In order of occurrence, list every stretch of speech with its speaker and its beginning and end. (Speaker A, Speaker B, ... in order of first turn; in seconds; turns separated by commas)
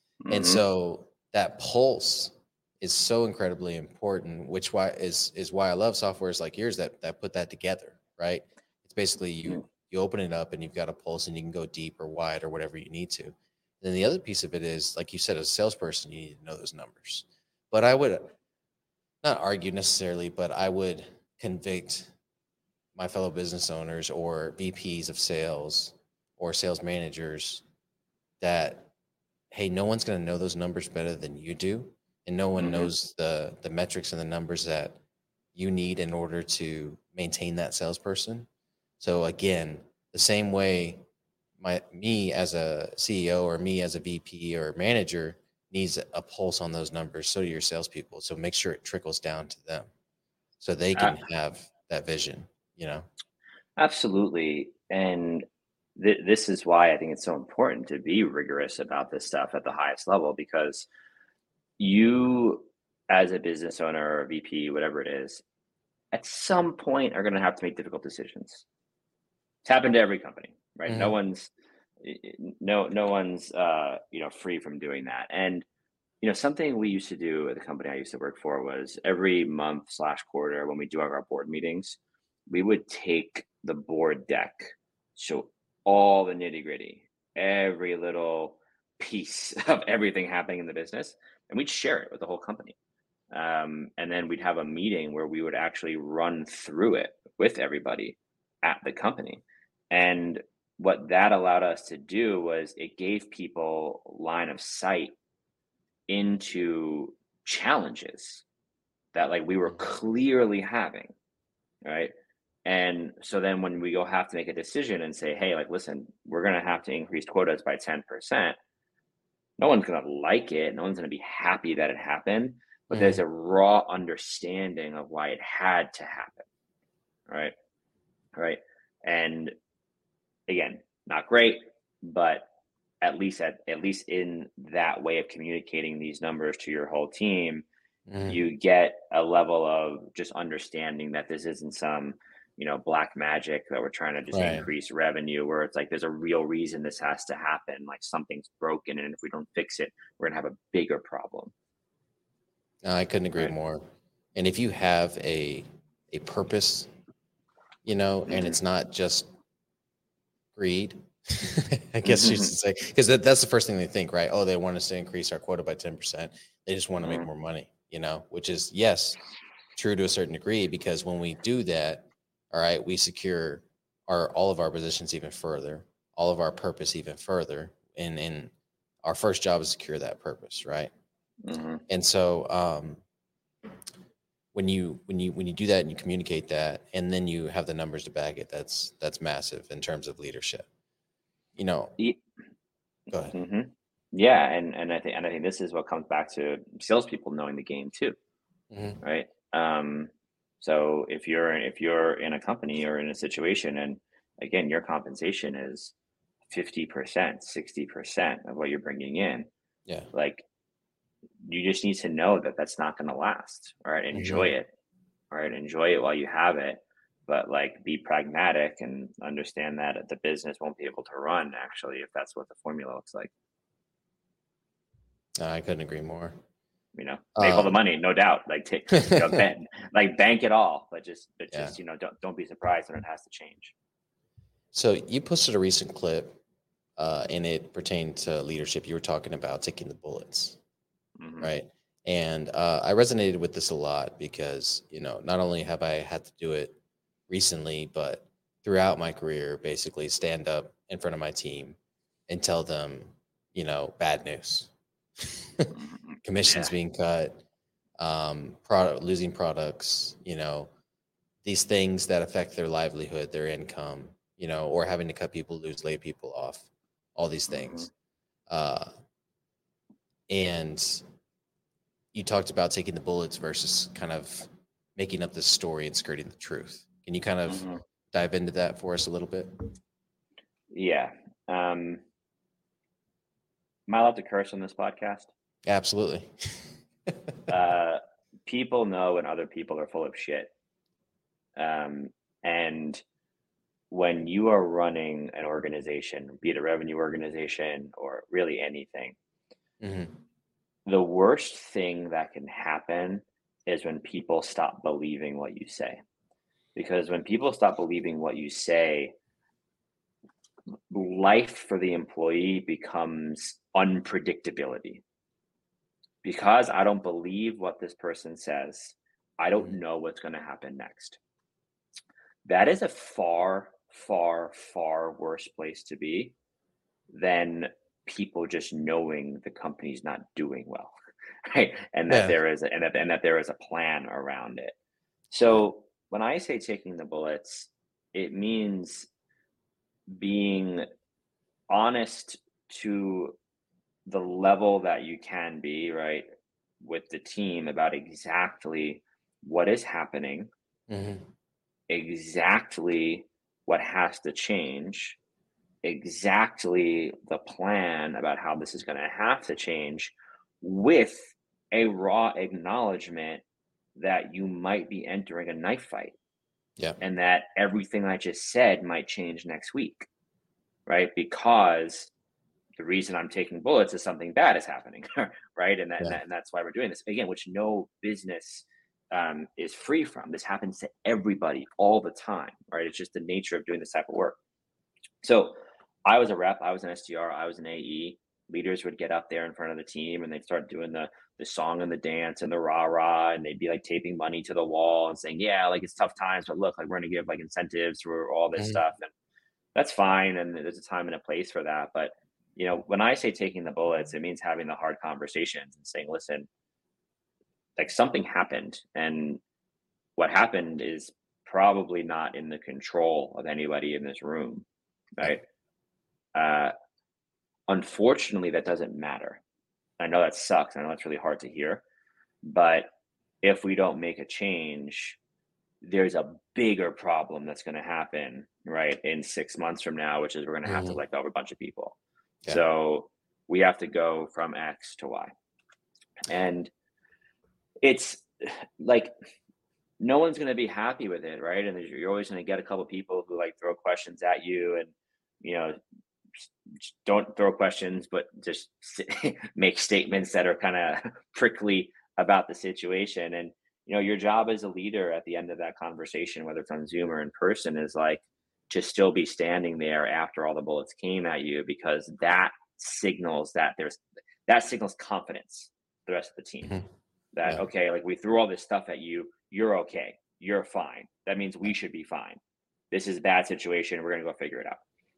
Speaker A: 0.2-0.6, Speaker B: 0.3-18.3, Speaker B: 19.2-22.1, Speaker B: 22.9-27.6, Speaker B: 28.4-28.9, Speaker B: 29.5-35.0, Speaker A: 32.6-32.9, Speaker B: 35.5-38.5, Speaker B: 39.0-41.0, Speaker B: 41.6-49.9, Speaker B: 50.6-53.1, Speaker A: 53.8-55.4, Speaker A: 56.0-60.9, Speaker A: 61.8-65.4, Speaker A: 66.1-68.6, Speaker A: 69.6-75.7, Speaker B: 70.9-71.1, Speaker A: 76.2-82.0, Speaker A: 82.5-92.7, Speaker A: 93.3-105.1, Speaker A: 106.1-108.4, Speaker A: 109.1-111.1, Speaker A: 111.8-112.1, Speaker A: 112.6-118.5, Speaker A: 119.6-126.5, Speaker B: 122.9-123.2, Speaker A: 127.3-127.5, Speaker A: 128.3-129.5, Speaker A: 130.5-132.5, Speaker A: 133.0-137.7, Speaker B: 138.1-138.4, Speaker A: 138.3-151.5, Speaker B: 144.3-144.7, Speaker B: 152.8-153.8, Speaker B: 154.3-156.9, Speaker B: 157.8-159.3, Speaker A: 158.3-158.6, Speaker B: 160.5-169.2, Speaker A: 162.0-162.5, Speaker A: 167.0-167.3, Speaker B: 169.8-178.5, Speaker B: 179.0-180.9, Speaker A: 181.4-181.8, Speaker B: 181.9-183.0, Speaker B: 184.5-190.7, Speaker B: 191.6-191.9, Speaker B: 193.1-193.3, Speaker A: 193.3-198.2, Speaker B: 198.7-199.0, Speaker A: 199.0-205.9, Speaker A: 206.5-209.5, Speaker A: 210.1-210.4, Speaker A: 211.4-214.7, Speaker B: 214.1-214.5, Speaker A: 215.3-223.3, Speaker B: 225.4-226.3, Speaker A: 226.9-233.7, Speaker B: 227.3-227.7, Speaker B: 229.0-229.4, Speaker B: 231.5-231.8, Speaker B: 234.7-236.4, Speaker B: 237.0-240.6, Speaker A: 241.2-241.5, Speaker B: 241.4-246.8, Speaker B: 247.3-251.8, Speaker B: 252.3-255.7, Speaker A: 255.7-256.7, Speaker B: 256.2-257.4, Speaker B: 258.0-260.7, Speaker B: 261.4-267.9, Speaker A: 267.5-267.9, Speaker B: 268.5-268.9, Speaker B: 270.3-271.0, Speaker B: 272.1-279.7, Speaker A: 277.5-277.8, Speaker A: 280.7-282.0, Speaker A: 283.9-285.3, Speaker B: 285.6-287.3, Speaker A: 287.5-290.5, Speaker A: 291.6-293.0, Speaker A: 293.9-299.2, Speaker B: 299.8-300.1, Speaker A: 300.9-306.0, Speaker A: 306.8-309.1, Speaker A: 310.9-315.0, Speaker A: 316.2-321.2, Speaker A: 322.4-326.3, Speaker A: 327.1-330.9, Speaker A: 331.4-334.7, Speaker B: 332.1-332.4, Speaker A: 335.3-339.1, Speaker A: 340.1-340.9, Speaker A: 341.7-343.4, Speaker A: 344.1-346.2, Speaker A: 346.8-350.5, Speaker B: 350.9-351.2, Speaker A: 351.9-355.2, Speaker A: 355.8-363.4, Speaker A: 363.9-366.1, Speaker A: 367.0-370.1, Speaker A: 370.9-372.1, Speaker A: 372.8-384.4, Speaker A: 385.2-399.1, Speaker A: 399.7-406.5, Speaker A: 407.8-409.4, Speaker A: 410.2-414.6, Speaker A: 415.2-415.4, Speaker A: 416.3-416.7, Speaker A: 417.7-419.4, Speaker A: 420.0-421.8, Speaker A: 422.4-422.9, Speaker A: 423.4-425.2, Speaker A: 425.8-431.9, Speaker B: 430.6-430.9, Speaker A: 432.5-435.3, Speaker A: 436.2-436.7, Speaker A: 437.8-439.1, Speaker A: 440.0-445.8, Speaker A: 446.8-466.8, Speaker A: 467.3-472.4, Speaker A: 472.9-474.8